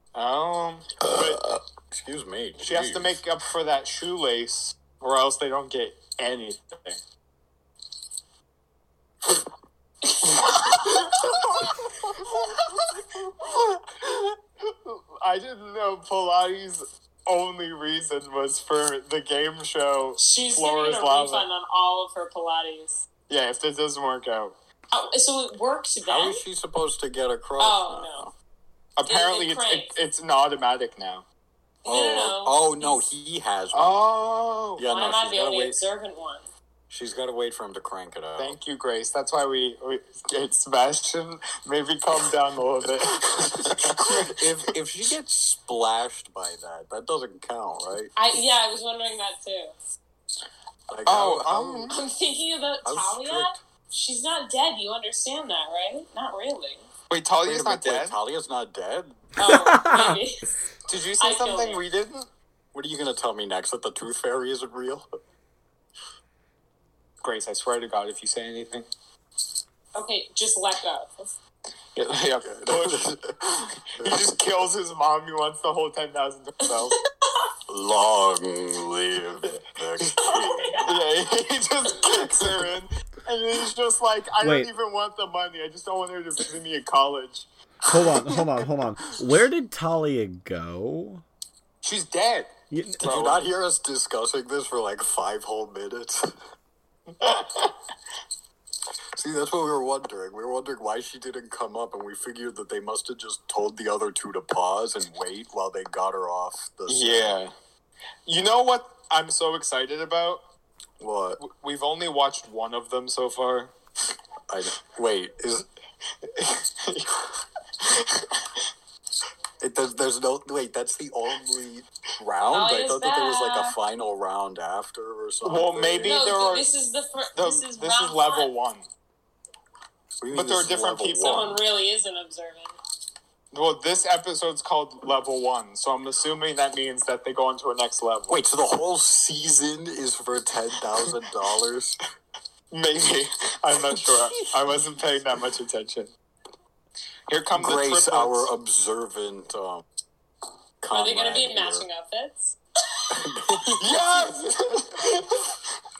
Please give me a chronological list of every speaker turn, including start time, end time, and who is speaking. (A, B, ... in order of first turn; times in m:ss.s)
0:00.1-0:01.4 A
0:01.0-0:03.2 B
0:02.6-0:07.0 A
0:10.4-0:21.4 A
0:20.2-0:23.0 C
0:23.3-0:24.5 A
0:24.9-0:26.4 C
0:26.0-0:28.3 B
0:27.6-0:28.2 C
0:29.0-0:31.2 A
0:29.0-0:29.9 C
0:31.8-0:33.1 C
0:31.8-0:34.0 B
0:33.7-0:34.8 A
0:34.8-0:35.8 B
0:34.9-0:36.5 C
0:36.9-0:38.6 B
0:38.4-0:44.5 A
0:43.4-0:48.1 B
0:48.2-0:49.9 C
0:50.9-0:51.9 B
0:51.0-0:52.0 A
0:51.9-0:56.9 C
0:52.8-0:53.6 B
0:57.1-0:58.2 A
0:57.4-0:59.3 B
0:59.4-1:00.4 C
0:59.4-1:00.2 D
1:00.9-1:02.3 A
1:01.2-1:01.8 C
1:02.7-1:05.1 B
1:07.2-1:08.8 A
1:09.9-1:11.3 C
1:11.9-1:13.2 A
1:12.4-1:14.3 B
1:13.8-1:17.0 A
1:17.7-1:20.9 B
1:20.2-1:21.1 C
1:20.8-1:27.5 A
1:22.2-1:22.7 B
1:24.4-1:24.7 D
1:27.9-1:31.2 D
1:31.8-1:33.5 A
1:32.7-1:33.1 D
1:33.0-1:36.3 B
1:37.2-1:37.7 A
1:39.1-1:47.4 B
1:46.9-1:47.5 A
1:48.2-1:50.4 A
1:51.0-1:51.4 B
1:51.4-1:53.7 A
1:54.5-1:55.7 B
1:56.2-1:58.4 A
1:59.6-2:06.2 B
2:02.5-2:03.8 C
2:05.4-2:06.7 A
2:06.0-2:08.5 C
2:07.4-2:08.8 A
2:10.2-2:11.6 B
2:10.3-2:11.4 A
2:11.2-2:12.7 C
2:13.5-2:18.4 A
2:18.3-2:22.0 B
2:22.7-2:26.1 A
2:24.0-2:24.4 B
2:27.3-2:28.5 A
2:27.5-2:29.8 B
2:30.8-2:31.9 B
2:30.9-2:33.0 C
2:33.1-2:34.0 B
2:33.8-2:35.6 A